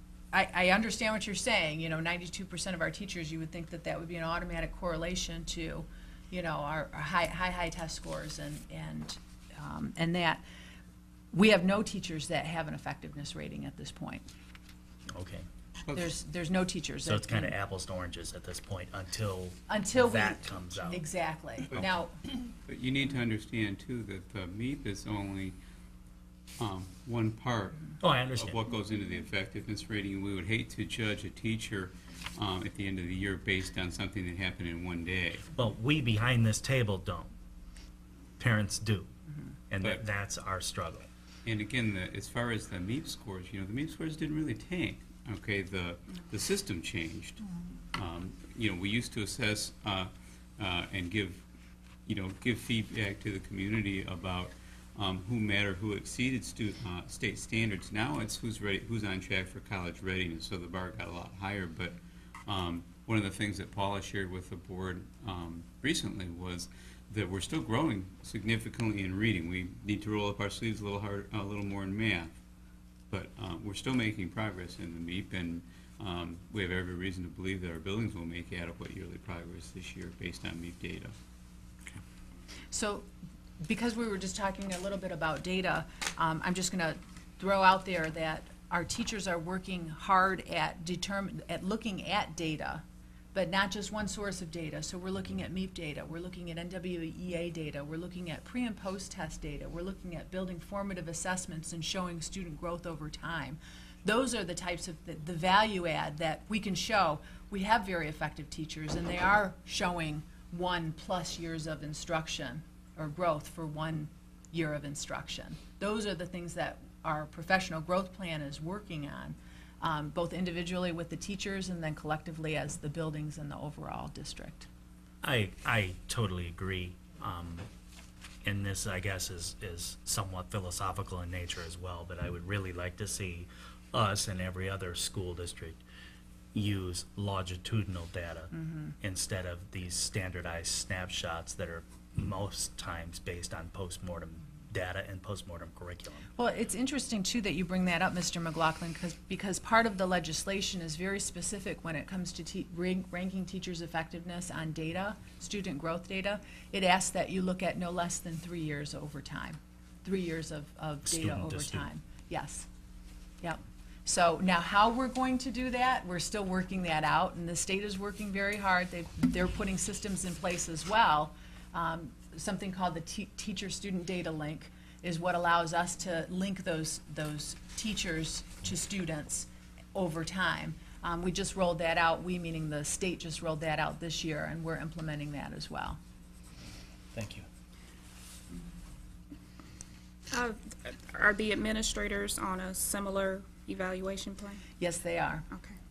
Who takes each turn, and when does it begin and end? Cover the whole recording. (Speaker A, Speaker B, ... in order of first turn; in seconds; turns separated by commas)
Speaker A: 0.3-10.4, Speaker A: 11.3-14.2, Speaker B: 15.1-15.4, Speaker C: 15.9-16.1, Speaker A: 15.9-17.5, Speaker B: 17.0-21.0, Speaker A: 19.7-22.1, Speaker C: 22.6-25.6, Speaker C: 26.6-35.5, Speaker B: 28.0-28.6, Speaker B: 35.5-37.3, Speaker B: 38.4-39.1, Speaker B: 39.7-41.1, Speaker C: 41.4-47.4, Speaker C: 47.9-51.4, Speaker C: 52.0-72.3, Speaker C: 73.1-81.1, Speaker A: 82.7-83.1, Speaker A: 83.6-124.7, Speaker B: 125.2-127.7, Speaker B: 128.4-135.8, Speaker B: 136.5-146.3, Speaker A: 138.6-138.9, Speaker A: 146.3-162.7, Speaker B: 161.1-161.9, Speaker A: 163.4-186.0, Speaker B: 187.1-187.4, Speaker D: 190.3-194.6, Speaker A: 194.8-195.4, Speaker D: 195.5-195.8